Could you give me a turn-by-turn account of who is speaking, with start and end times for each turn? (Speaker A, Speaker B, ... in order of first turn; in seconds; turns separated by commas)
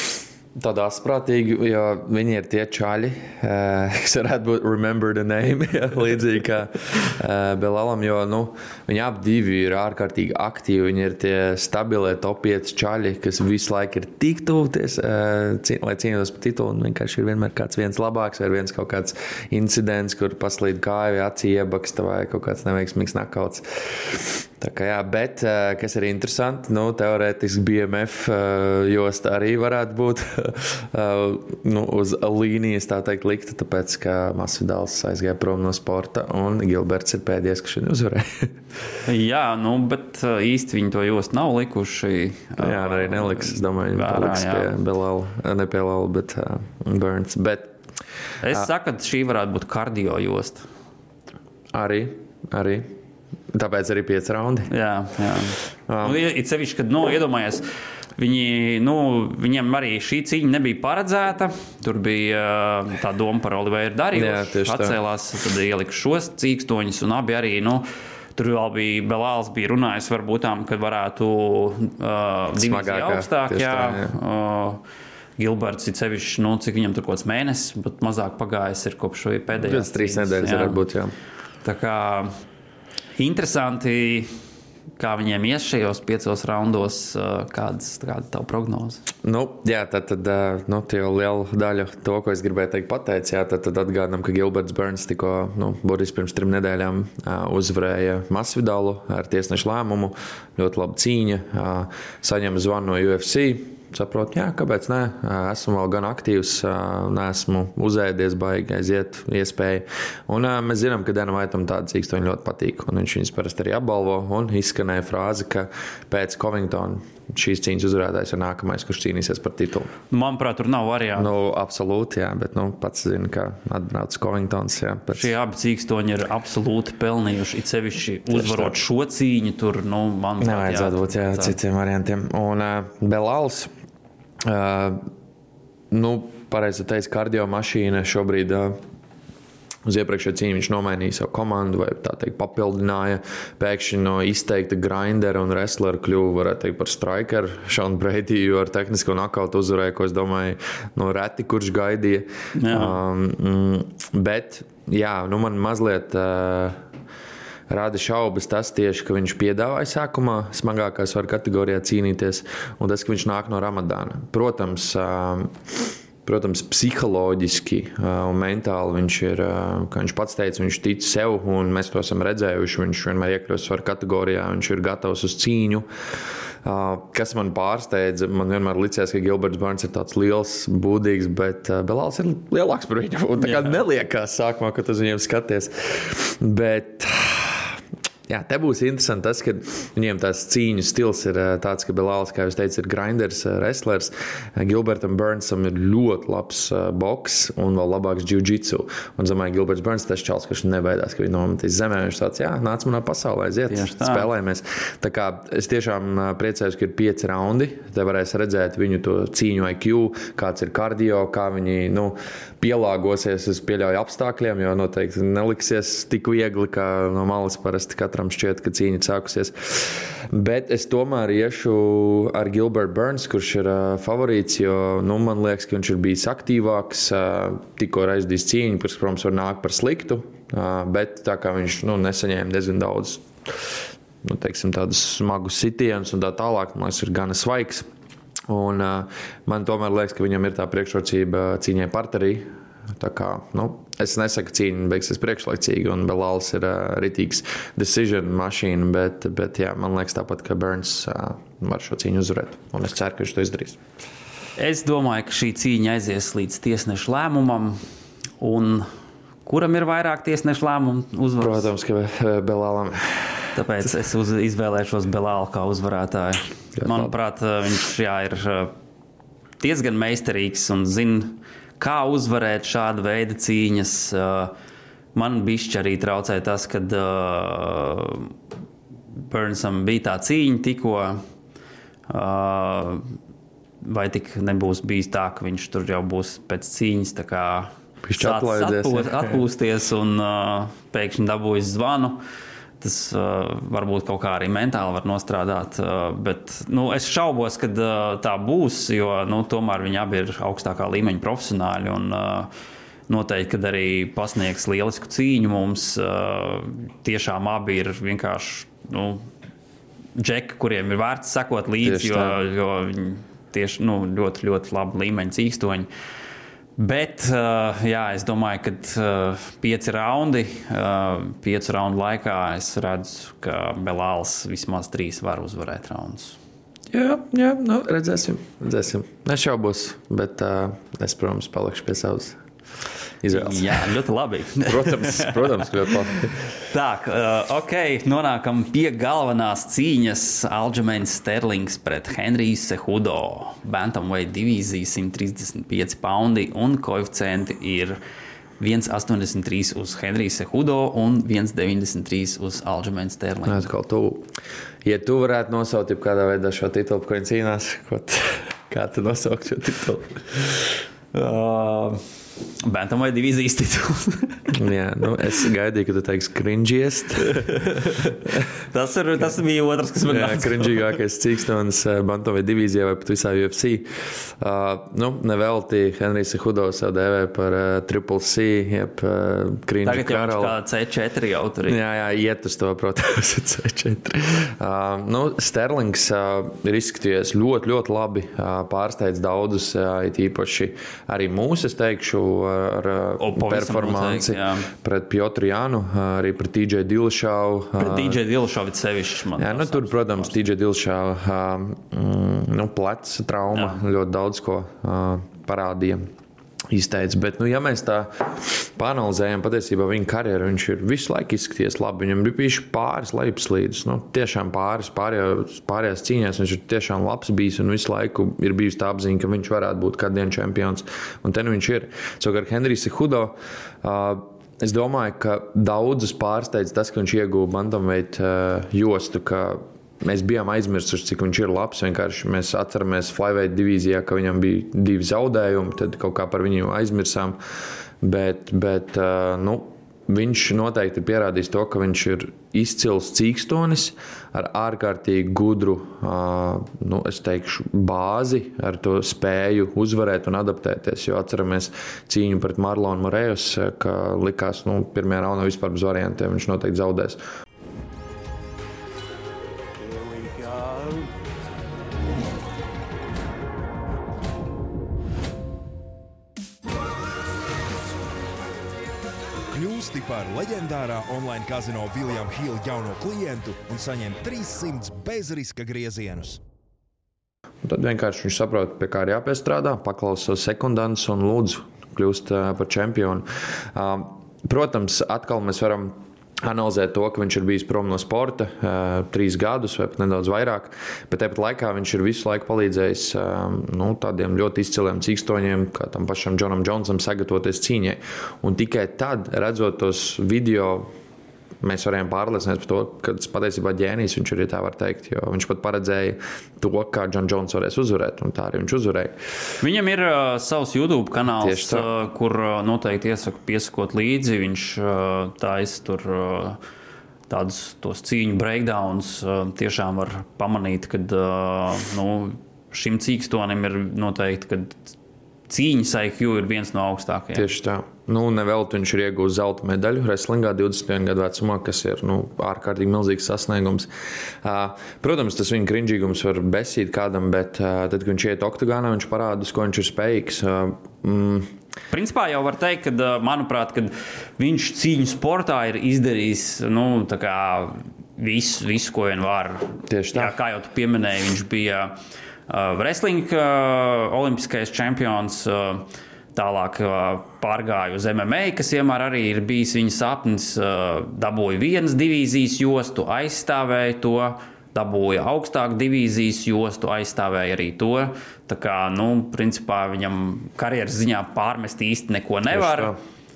Speaker A: 0.6-38.5, Speaker B: 39.0-44.7, Speaker A: 42.6-47.7, Speaker B: 48.4-50.6, Speaker A: 51.7-52.9, Speaker A: 53.5-54.7, Speaker B: 54.7-57.6, Speaker A: 55.9-56.2, Speaker B: 58.2-74.8, Speaker A: 64.1-65.0, Speaker A: 72.5-74.1, Speaker B: 75.4-80.8, Speaker A: 79.5-81.1, Speaker B: 81.6-82.3, Speaker B: 83.2-84.3, Speaker B: 85.0-89.0, Speaker A: 89.2-119.9, Speaker B: 120.1-121.3, Speaker A: 121.2-125.3, Speaker B: 125.1-131.6, Speaker A: 128.3-128.8, Speaker A: 130.4-133.7, Speaker A: 134.4-135.1, Speaker A: 135.9-138.8, Speaker A: 139.8-156.8, Speaker B: 152.6-153.0, Speaker A: 157.7-175.9, Speaker A: 176.6-237.9, Speaker B: 183.4-183.8, Speaker B: 203.7-204.3, Speaker A: 238.5-253.8, Speaker B: 254.6-257.8, Speaker B: 258.4-258.9, Speaker B: 259.4-261.7, Speaker A: 261.4-263.5, Speaker B: 263.5-268.7, Speaker A: 266.8-267.1, Speaker B: 269.6-274.5, Speaker B: 275.1-278.3, Speaker B: 279.1-281.2, Speaker B: 282.1-283.0, Speaker B: 283.8-292.2, Speaker A: 288.0-289.4, Speaker B: 292.8-302.5, Speaker B: 303.1-309.2, Speaker B: 310.1-315.9, Speaker A: 311.8-312.4, Speaker B: 316.8-326.4, Speaker A: 326.9-332.4, Speaker A: 333.2-333.9, Speaker B: 333.3-335.7, Speaker A: 334.6-336.3, Speaker B: 336.6-348.0, Speaker B: 348.6-353.7, Speaker A: 353.4-354.3, Speaker A: 354.8-360.7, Speaker B: 361.1-362.0, Speaker B: 362.6-364.5, Speaker A: 364.5-367.6, Speaker B: 367.2-368.2, Speaker B: 368.7-370.9, Speaker A: 370.1-380.5, Speaker B: 379.8-381.8, Speaker A: 381.7-398.2, Speaker B: 393.2-394.7, Speaker B: 397.8-400.4, Speaker A: 399.4-406.1, Speaker B: 403.5-403.8, Speaker A: 406.7-437.4, Speaker A: 438.0-457.2, Speaker C: 459.8-461.1, Speaker C: 469.5-476.4, Speaker A: 477.6-500.9, Speaker A: 501.6-509.1, Speaker B: 509.6-516.6, Speaker A: 511.4-511.9, Speaker B: 517.3-524.9, Speaker B: 525.5-527.5, Speaker A: 527.3-533.9, Speaker A: 534.4-541.5, Speaker B: 541.9-552.0, Speaker A: 549.9-550.3, Speaker B: 552.5-572.9, Speaker A: 572.5-573.0